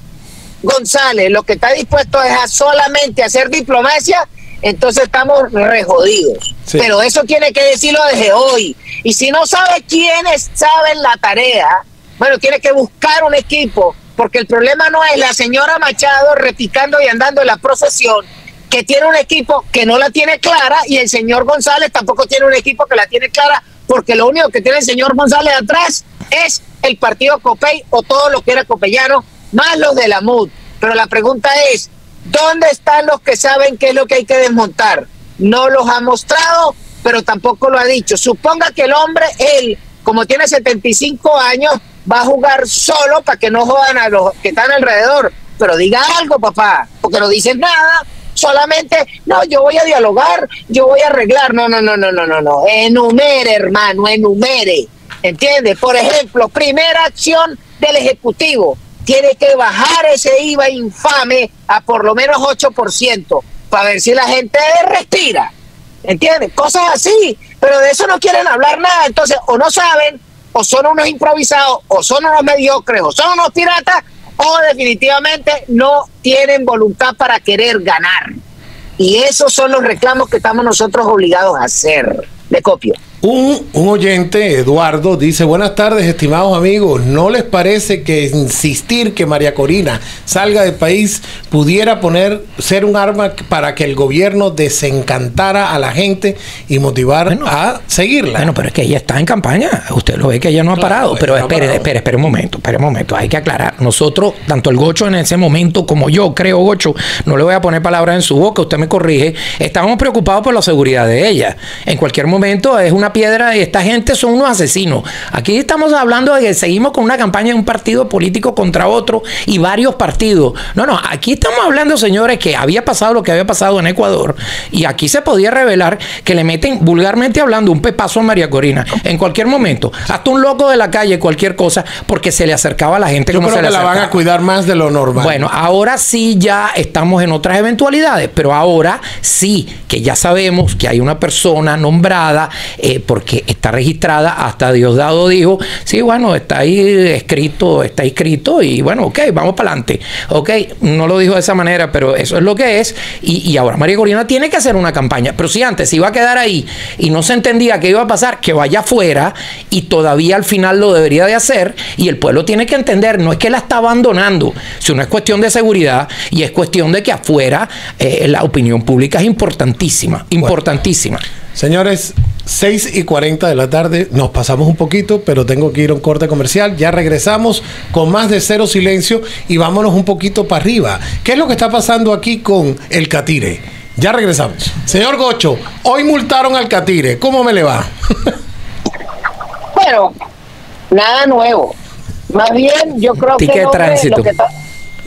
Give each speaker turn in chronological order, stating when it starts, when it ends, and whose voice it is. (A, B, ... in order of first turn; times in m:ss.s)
0:00.6-1:05.5 A
1:06.0-1:18.4 A
1:19.0-1:23.0 A
1:23.2-1:38.5 B
1:37.3-1:37.5 C
1:38.4-2:14.1 C
1:40.7-1:41.9 B
2:13.3-2:15.4 B
2:15.2-2:51.2 C
2:51.5-3:08.3 B
3:09.7-3:10.1 A
3:10.9-3:11.7 A
3:12.3-3:14.5 A
3:13.4-3:14.3 C